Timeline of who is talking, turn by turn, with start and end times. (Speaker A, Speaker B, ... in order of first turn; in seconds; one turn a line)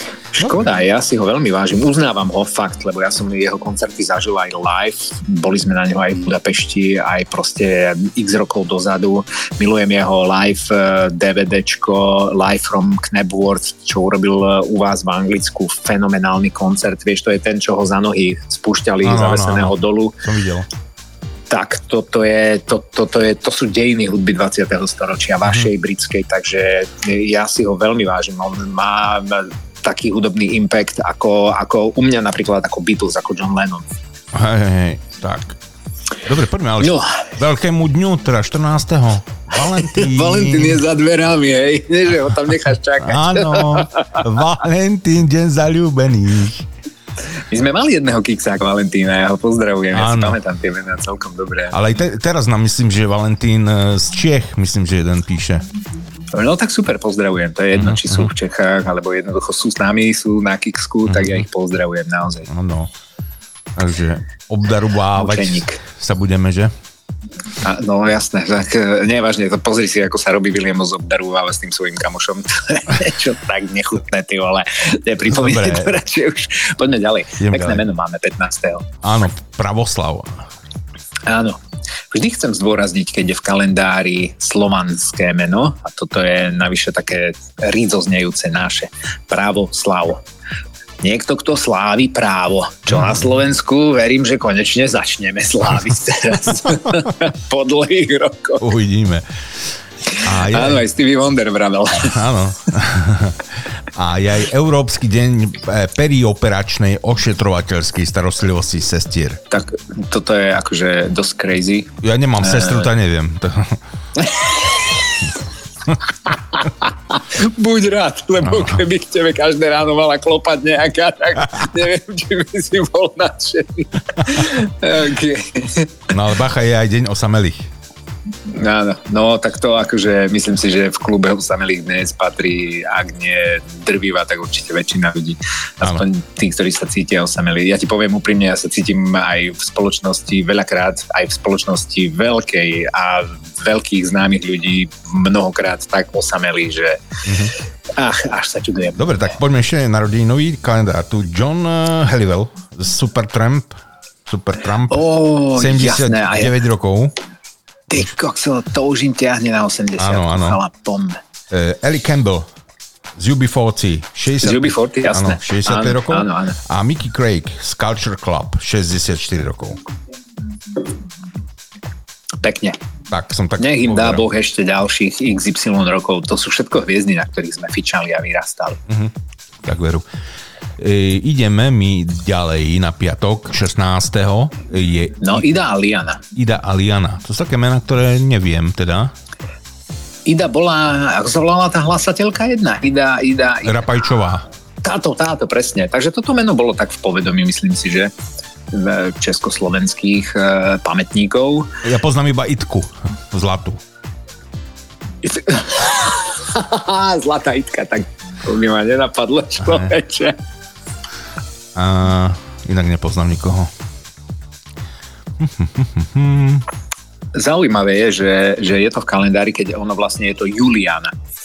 Speaker A: 0.3-20.2
Speaker B: 19.0-20.7
Speaker A: 21.5-33.9
Speaker B: 34.3-35.6
Speaker B: 36.2-40.8
Speaker A: 36.8-37.1
Speaker A: 39.8-44.2
Speaker B: 43.0-46.6
Speaker A: 47.5-51.8
Speaker B: 49.9-50.4
Speaker B: 51.7-55.6
Speaker A: 56.3-62.5
Speaker B: 57.7-58.3
Speaker B: 61.1-61.4
Speaker B: 62.5-62.9
Speaker B: 63.8-66.7
Speaker A: 65.2-65.8
Speaker A: 67.6-78.9
Speaker B: 75.3-75.9
Speaker B: 77.4-77.8
Speaker B: 79.0-80.5
Speaker A: 81.3-81.6
Speaker A: 82.1-90.2
Speaker A: 91.0-98.7
Speaker B: 98.6-99.3
Speaker A: 100.2-102.1
Speaker B: 100.2-100.8
Speaker B: 102.0-103.4
Speaker B: 104.0-109.4
Speaker A: 109.5-112.9
Speaker B: 112.0-113.8
Speaker A: 114.2-114.9
Speaker A: 116.6-125.9
Speaker B: 118.4-118.8
Speaker B: 126.1-127.7
Speaker A: 128.5-147.0
Speaker B: 147.2-147.5
Speaker A: 148.0-149.1
Speaker B: 149.0-155.0
Speaker A: 154.9-156.6
Speaker B: 155.5-157.1
Speaker A: 157.9-161.2
Speaker B: 160.0-160.6
Speaker B: 161.5-162.5
Speaker B: 163.2-169.8
Speaker A: 164.4-166.6
Speaker A: 172.4-172.8
Speaker B: 173.1-174.2
Speaker A: 173.6-178.8
Speaker B: 179.6-180.1
Speaker B: 180.8-185.4
Speaker A: 185.2-186.2
Speaker B: 186.3-189.1
Speaker A: 190.3-194.2
Speaker B: 193.7-194.4
Speaker A: 194.8-198.1
Speaker A: 198.7-201.7
Speaker B: 201.8-203.8
Speaker A: 205.2-210.4
Speaker B: 211.8-213.7
Speaker B: 215.4-216.7
Speaker A: 217.3-221.1